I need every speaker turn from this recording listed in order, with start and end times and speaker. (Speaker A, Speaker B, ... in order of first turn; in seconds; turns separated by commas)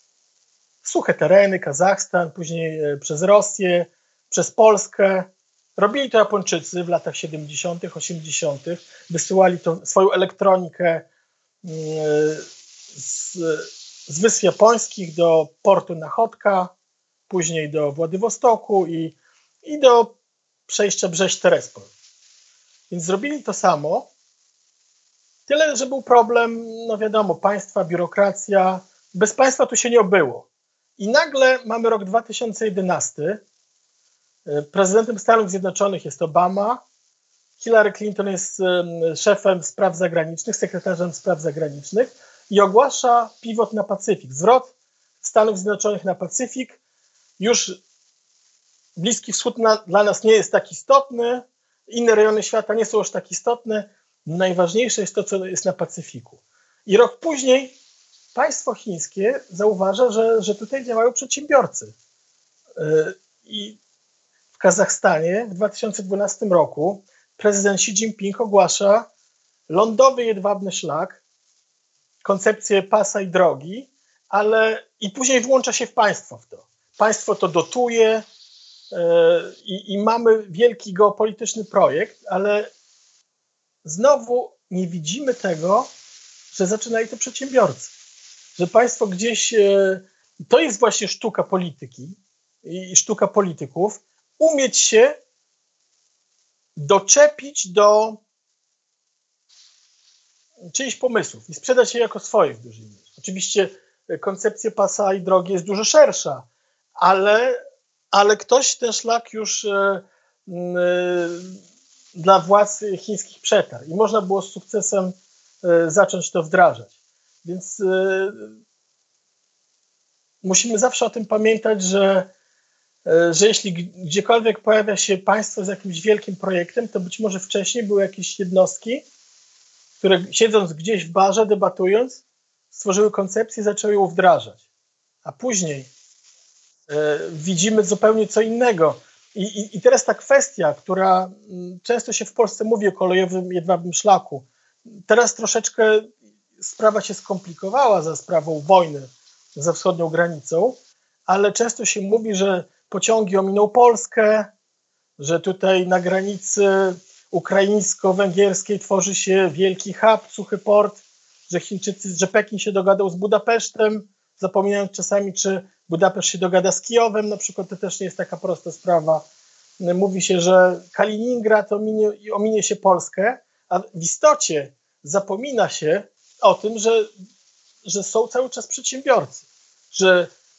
Speaker A: 0.8-11.1, Speaker A: 11.6-12.4, Speaker A: 12.9-16.7, Speaker A: 17.3-20.1, Speaker A: 20.7-21.9, Speaker A: 22.9-24.1, Speaker A: 25.5-30.4, Speaker A: 31.0-33.4, Speaker A: 34.5-36.8, Speaker A: 37.6-44.7, Speaker A: 45.2-46.8, Speaker A: 47.4-47.8, Speaker A: 49.0-57.7, Speaker A: 58.3-61.9, Speaker A: 62.8-63.8, Speaker A: 64.5-69.1, Speaker A: 69.7-71.2, Speaker A: 72.2-78.2, Speaker A: 78.9-82.7, Speaker A: 83.8-85.9, Speaker A: 86.5-87.9, Speaker A: 88.5-95.2, Speaker A: 96.8-98.2, Speaker A: 100.7-106.5, Speaker A: 107.0-107.6, Speaker A: 108.1-111.6, Speaker A: 112.1-116.9, Speaker A: 117.4-118.5, Speaker A: 120.4-122.3, Speaker A: 123.0-129.0, Speaker A: 130.0-132.2, Speaker A: 132.7-134.6, Speaker A: 135.2-135.9, Speaker A: 136.9-144.5, Speaker A: 145.1-146.1, Speaker A: 146.6-150.8, Speaker A: 151.3-154.5, Speaker A: 155.2-169.2, Speaker A: 169.8-177.1, Speaker A: 177.8-180.3